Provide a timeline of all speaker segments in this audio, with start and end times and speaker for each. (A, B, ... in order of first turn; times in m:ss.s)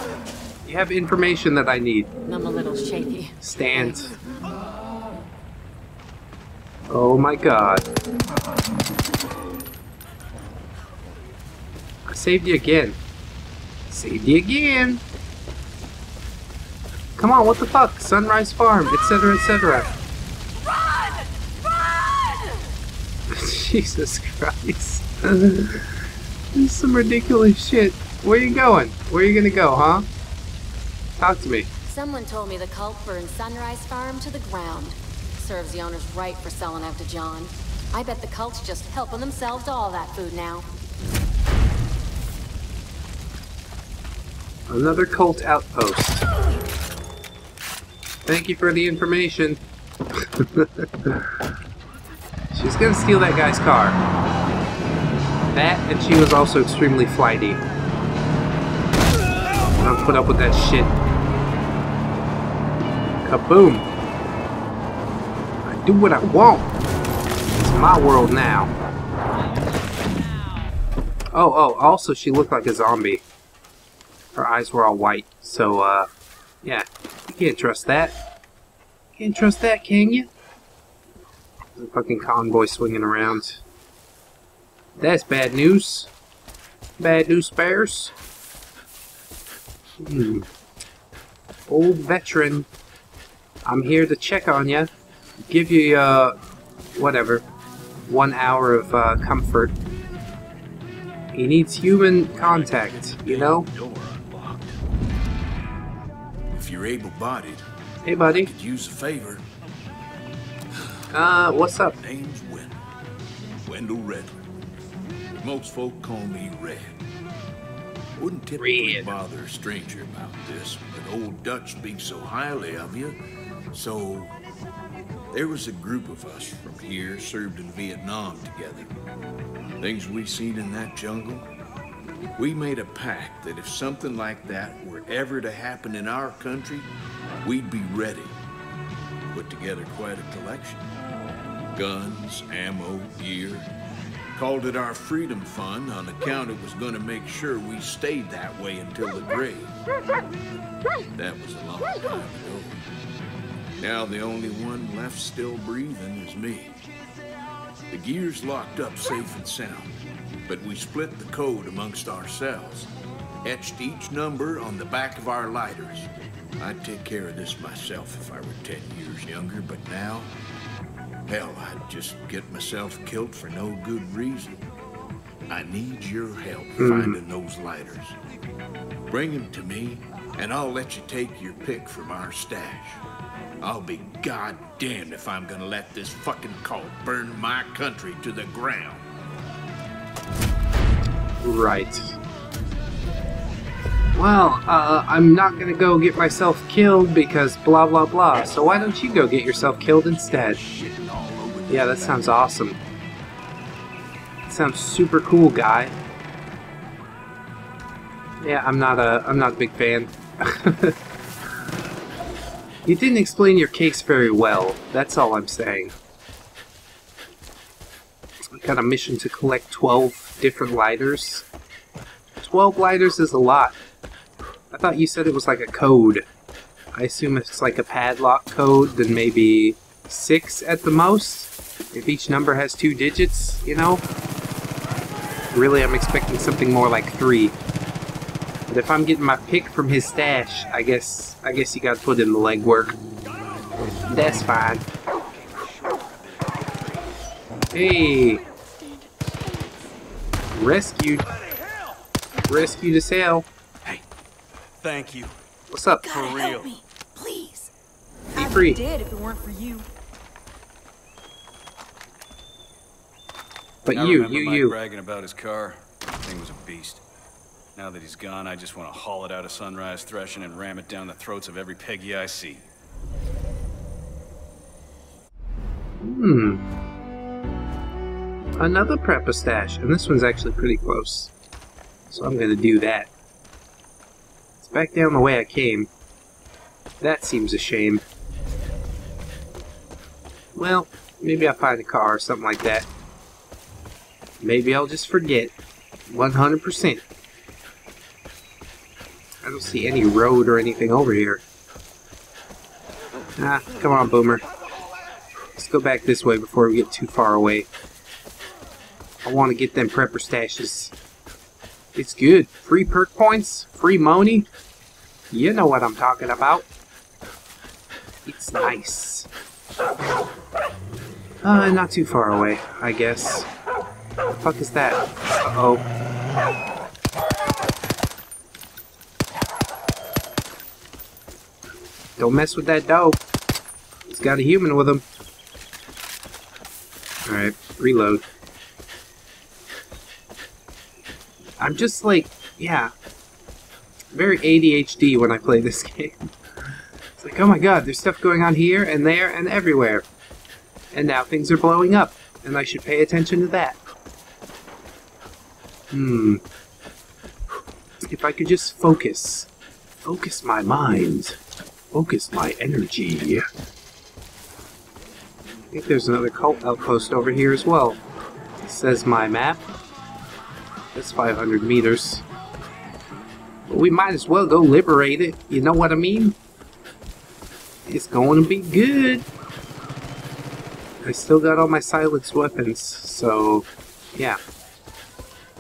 0:00.6-0:02.1 A
0:02.3-0:04.0 B
0:03.4-0:04.1 A
0:06.9-0:07.8 A
0:12.0-0:13.0 A
0:13.9-0:15.0 A
0:17.2-0:19.9 A
0:23.3-0:26.0 A
0:26.5-0:30.1 A
0:31.2-0:31.7 A
0:31.9-0:40.7 B
0:44.7-0:46.2 A
0:48.2-0:49.6 A
0:50.2-0:51.3 A
0:52.5-0:54.0 A
0:55.5-0:57.6 A
0:59.8-1:01.0 A
1:03.2-1:03.8 A
1:05.6-1:06.7 A
1:07.6-1:08.7 A
1:11.3-1:13.2 A
1:14.3-1:16.1 A
1:16.6-1:18.2 A
1:19.2-1:20.3 A
1:21.8-1:23.6 A
1:25.0-1:26.1 A
1:27.0-1:28.1 A
1:30.0-1:30.4 A
1:31.7-1:32.7 A
1:33.6-1:34.9 A
1:35.5-1:36.4 A
1:37.0-1:37.4 A
1:38.1-1:39.7 A
1:41.3-1:43.7 A
1:42.3-1:44.8 C
1:46.5-1:47.6 C
1:48.0-1:48.5 A
1:48.2-1:49.4 C
1:51.1-1:52.0 A
1:52.0-1:52.8 C
1:53.6-1:54.3 C
1:55.4-1:57.0 C
1:58.2-2:03.2 C
1:58.6-1:59.1 A
2:03.7-2:04.4 C
2:05.3-2:08.9 C
2:09.8-2:11.5 C
2:12.4-2:16.9 C
2:17.4-2:18.4 C
2:19.3-2:20.9 C
2:21.7-2:23.7 C
2:24.3-2:29.7 C
2:31.1-2:32.8 C
2:33.8-2:36.8 C
2:37.9-2:39.9 C
2:40.5-2:42.9 C
2:43.4-2:50.3 C
2:51.3-2:54.6 C
2:55.5-2:58.2 C
2:56.8-2:57.2 A
2:59.1-3:03.0 C
3:03.6-3:09.0 C
3:11.4-3:12.1 A
3:14.1-3:20.6 A
3:20.2-3:22.5 C
3:21.7-3:22.8 A
3:24.5-3:26.0 A
3:28.4-3:30.9 A
3:32.8-3:35.9 A
3:38.5-3:41.4 A
3:42.4-3:43.7 A
3:44.7-3:46.2 A
3:46.9-3:54.0 A
3:55.5-3:57.5 A
3:58.7-4:03.0 A
4:04.1-4:04.8 A
4:05.4-4:07.1 C
4:07.7-4:08.4 A
4:08.7-4:09.9 D
4:10.5-4:11.2 A
4:12.5-4:13.4 A
4:14.8-4:15.3 E
4:15.7-4:16.1 A
4:16.0-4:17.7 D
4:16.0-4:16.7 E
4:18.3-4:18.8 A
4:18.3-4:19.9 D
4:23.8-4:24.8 A
4:23.9-4:27.0 E
4:27.8-4:32.6 E
4:36.0-4:36.6 A
4:38.6-4:41.3 A
4:42.1-4:43.1 A
4:44.6-4:45.9 A
4:47.0-4:48.0 A
4:50.5-4:52.9 A
4:54.4-4:55.5 A
4:56.1-4:57.0 A
4:59.4-5:01.4 A
5:03.4-5:04.4 A
5:05.6-5:07.7 A
5:09.2-5:10.9 A
5:11.9-5:14.5 A
5:15.3-5:16.6 A
5:18.2-5:19.3 A
5:21.4-5:23.5 A
5:24.3-5:25.8 A
5:32.2-5:33.2 A
5:34.1-5:35.0 A
5:37.3-5:38.2 A
5:41.6-5:42.9 A
5:44.1-5:46.3 A
5:47.2-5:50.0 A
5:50.9-5:53.8 A
5:55.9-5:56.4 A
5:58.1-5:59.5 A
6:00.0-6:01.4 A
6:01.9-6:03.4 A
6:05.7-6:08.0 A
6:08.6-6:09.6 A
6:10.9-6:12.2 A
6:13.7-6:16.3 A
6:17.8-6:19.3 A
6:21.0-6:24.4 A